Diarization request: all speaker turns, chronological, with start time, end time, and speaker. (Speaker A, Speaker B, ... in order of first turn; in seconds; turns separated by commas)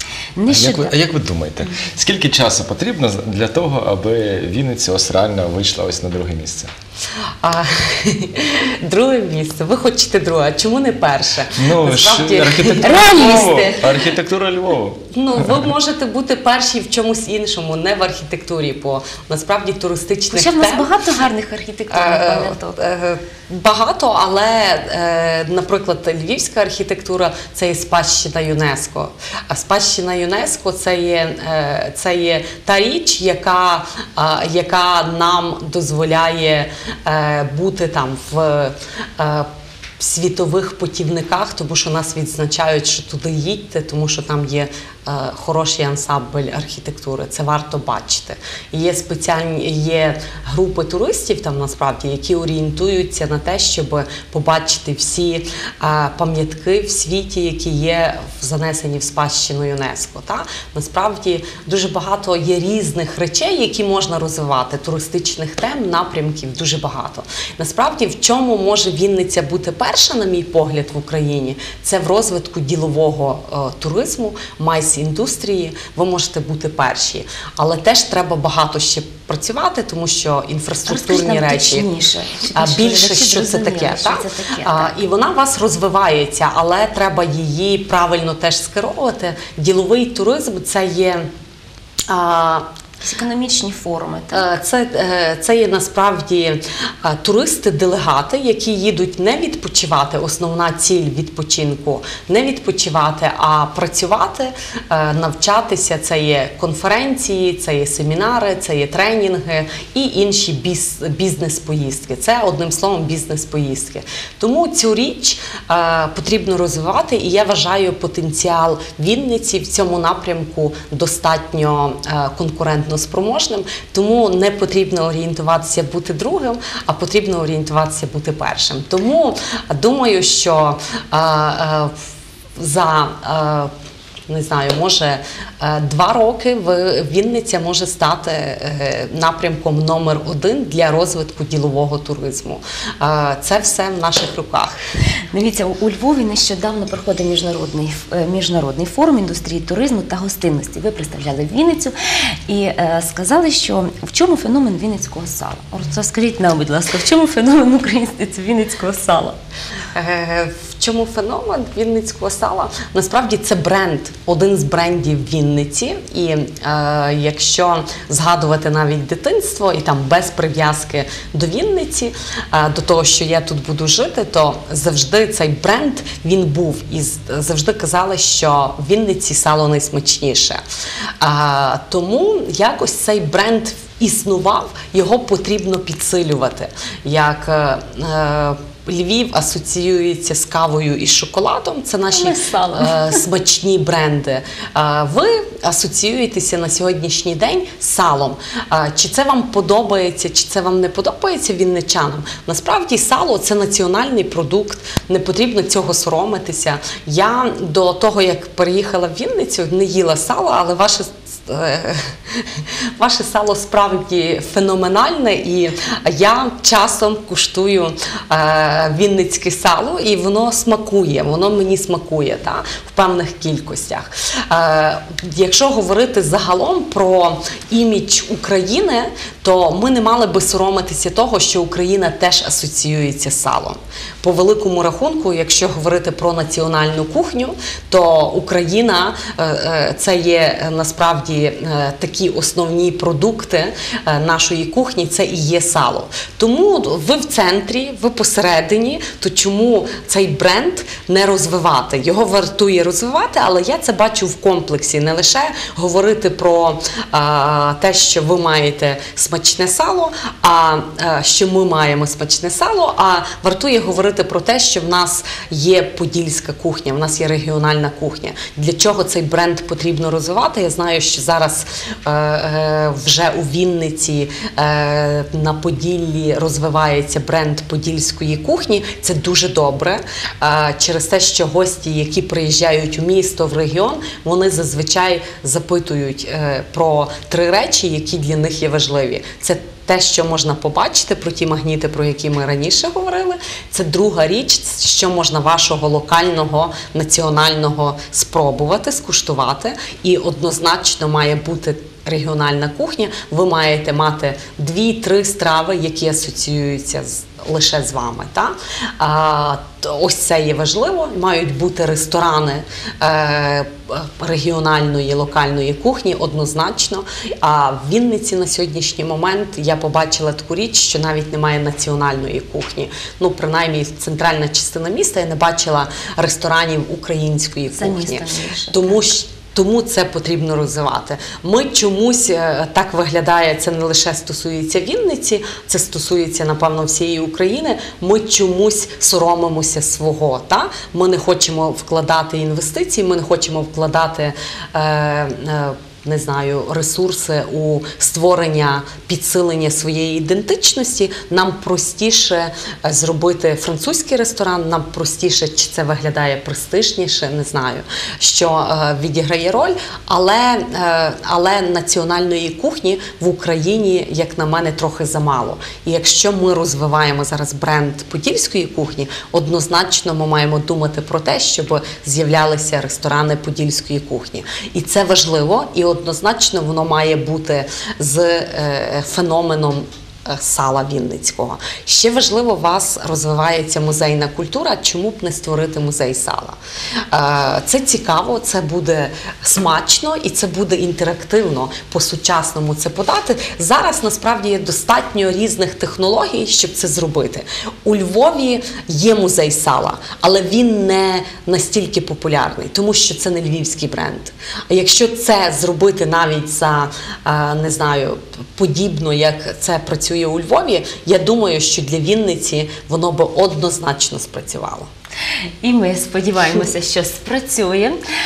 Speaker A: 0.4-0.9, Speaker B: 0.5-6.7, Speaker C: 7.4-13.5, Speaker B: 11.6-15.7, Speaker A: 12.8-13.8, Speaker C: 15.1-20.9, Speaker A: 20.3-22.8, Speaker C: 21.9-39.5, Speaker C: 40.0-81.9, Speaker A: 80.8-84.9, Speaker C: 82.5-91.3, Speaker C: 92.1-92.7, Speaker A: 93.0-94.4, Speaker C: 94.3-131.9, Speaker C: 132.6-133.7, Speaker C: 134.3-144.7, Speaker A: 145.3-151.9, Speaker A: 152.5-159.3, Speaker C: 159.9-180.6, Speaker C: 181.2-386.6, Speaker A: 192.1-193.2, Speaker A: 327.7-329.0, Speaker C: 387.1-414.9, Speaker A: 415.6-418.0